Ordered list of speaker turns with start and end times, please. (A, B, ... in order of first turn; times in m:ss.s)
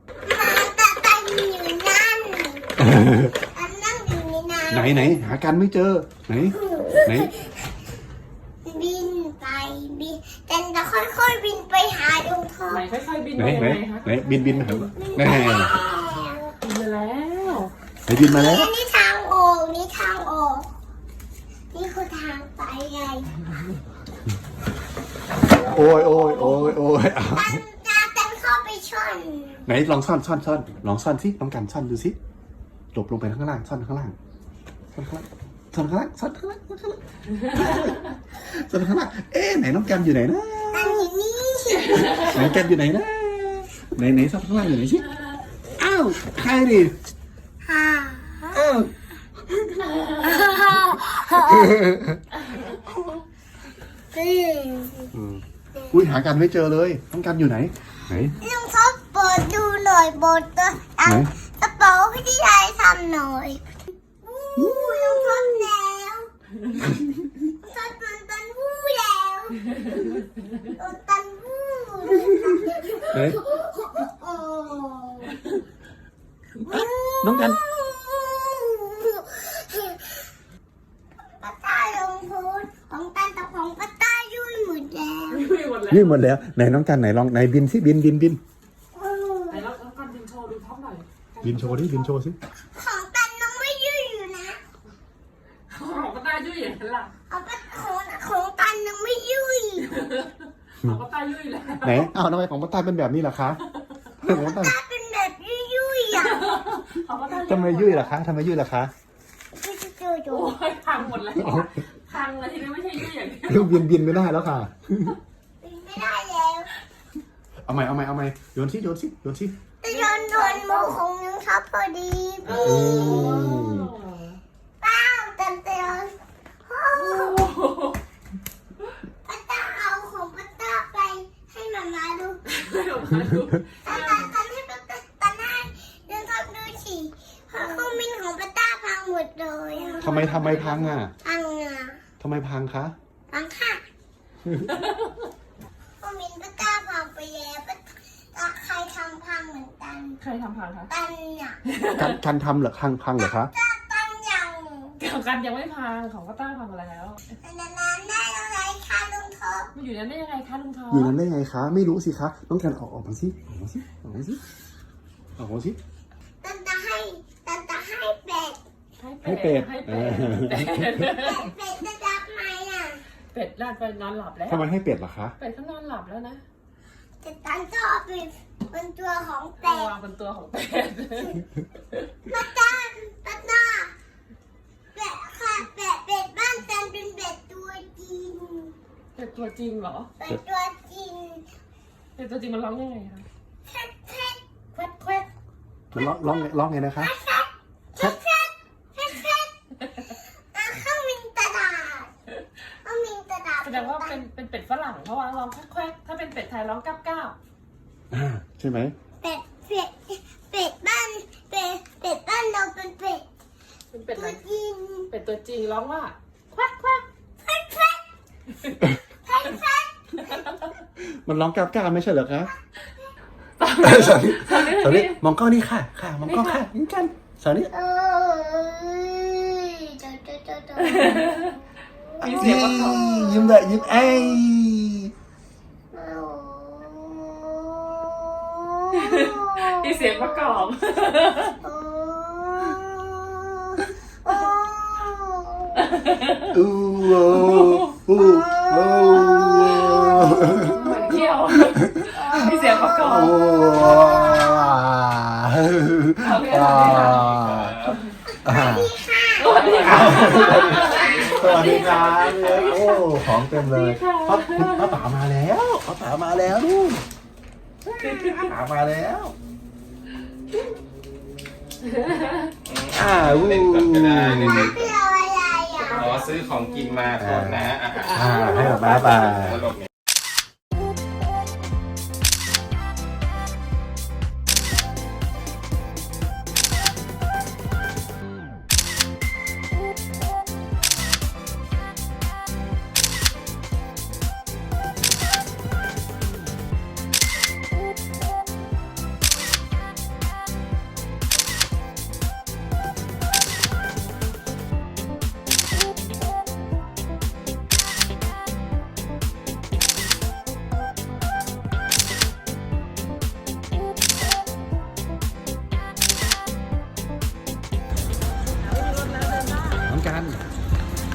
0:00.2-0:05.1 A
0:02.8-0:03.3 B
0:04.7-0:07.3 B
0:06.6-0:07.7 A
0:08.6-0:12.8 A
0:12.7-0:14.7 C
0:13.4-0:15.8 B
0:14.3-0:16.5 A
0:16.6-0:17.7 C
0:18.1-0:18.7 B
0:18.2-0:20.7 A
0:21.7-0:23.3 A
0:25.6-0:27.6 B
0:25.8-0:26.8 C
0:27.2-0:29.7 A
0:29.6-0:32.2 B
0:32.9-0:34.2 B
0:35.0-0:41.1 B
0:40.7-0:42.6 A
0:42.2-0:45.1 B
0:45.8-0:46.9 B
0:47.6-0:48.6 A
0:48.5-0:48.9 B
0:49.9-0:50.4 C
0:50.2-0:51.8 A
0:51.6-0:52.2 B
0:54.1-0:55.1 A
0:55.1-0:58.4 B
0:58.4-1:03.7 A
1:01.0-1:01.3 B
1:04.2-1:06.3 A
1:04.6-1:05.7 B
1:07.4-1:15.4 A
1:13.1-1:13.4 B
1:16.7-1:17.6 B
1:16.7-1:20.3 A
1:21.4-1:25.5 A
1:25.3-1:26.2 C
1:25.9-1:28.4 B
1:29.0-1:29.6 A
1:29.5-1:32.1 C
1:31.4-1:32.4 B
1:32.8-1:34.6 A
1:35.7-1:37.1 C
1:37.3-1:39.9 A
1:39.9-1:42.1 C
1:41.8-1:43.6 B
1:44.2-1:44.8 B
1:44.2-1:46.5 A
1:46.1-1:48.2 C
1:47.4-1:48.9 B
1:49.6-1:50.5 A
1:50.3-1:53.9 C
1:51.4-1:51.7 B
1:53.5-1:55.2 B
1:55.6-1:56.7 A
1:57.7-1:59.6 B
1:59.8-2:03.7 A
1:59.9-2:01.0 C
2:02.4-2:04.4 C
2:02.5-2:03.9 B
2:04.8-2:07.5 A
2:06.9-2:08.0 C
2:09.2-2:12.4 A
2:12.5-2:14.3 C
2:13.8-2:20.3 A
2:17.6-2:17.9 C
2:19.7-2:21.0 C
2:20.0-2:21.2 B
2:21.2-2:22.0 A
2:22.2-2:23.0 B
2:23.3-2:23.8 A
2:24.7-2:25.1 C
2:26.0-2:30.2 A
2:30.2-2:30.9 C
2:30.9-2:31.6 A
2:31.6-2:32.2 C
2:32.0-2:33.5 B
2:33.2-2:35.0 A
2:35.0-2:37.2 C
2:37.4-2:39.7 A
2:39.7-2:41.2 C
2:40.9-2:44.4 B
2:45.4-2:45.8 B
2:46.4-2:48.6 A
2:49.0-2:51.5 C
2:49.2-2:51.0 B
2:51.1-2:53.0 A
2:53.3-2:54.7 C
2:54.5-2:55.4 B
2:55.4-2:56.4 C
2:57.2-2:59.9 A
2:59.6-3:01.5 C
3:02.3-3:03.9 A
3:05.0-3:08.7 A
3:09.2-3:10.1 C
3:10.2-3:11.4 A
3:12.2-3:13.3 C
3:13.7-3:14.4 A
3:14.8-3:15.3 C
3:15.9-3:17.1 B
3:15.9-3:22.1 A
3:22.8-3:24.2 A
3:23.6-3:27.4 C
3:28.1-3:29.0 B
3:29.2-3:33.2 A
3:33.9-3:34.4 C
3:34.1-3:35.1 A
3:35.1-3:37.0 C
3:37.4-3:38.0 A
3:38.8-3:40.5 A
3:41.0-3:42.5 B
3:43.6-3:45.2 C
3:43.8-3:47.7 B
3:46.2-3:46.6 C
3:47.7-3:51.6 A
3:50.8-3:51.6 C
3:52.2-3:53.2 C
3:52.2-3:55.1 B
3:52.4-3:54.4 A
3:55.9-4:00.5 A
3:58.9-4:01.6 C
4:01.6-4:05.8 A
4:05.8-4:06.5 C
4:06.5-4:10.8 B
4:07.3-4:08.0 C
4:08.1-4:11.3 A
4:10.4-4:13.4 C
4:11.7-4:12.3 B
4:12.1-4:14.8 A
4:13.0-4:17.8 B
4:16.2-4:17.3 C
4:16.8-4:18.0 D
4:18.3-4:22.6 A
4:18.4-4:18.9 B
4:19.4-4:25.0 C
4:19.7-4:27.0 B
4:20.7-4:22.7 D
4:27.8-4:29.4 B
4:28.0-4:28.5 C
4:31.9-4:32.5 C
4:32.6-4:35.0 D
4:32.9-4:34.7 B
4:34.2-4:36.2 A
4:35.8-4:36.4 C
4:36.0-4:38.1 D
4:37.2-4:39.7 B
4:38.0-4:39.3 C
4:38.3-4:38.9 A
4:38.7-4:39.9 D
5:18.5-5:19.9 C
5:19.8-5:20.5 B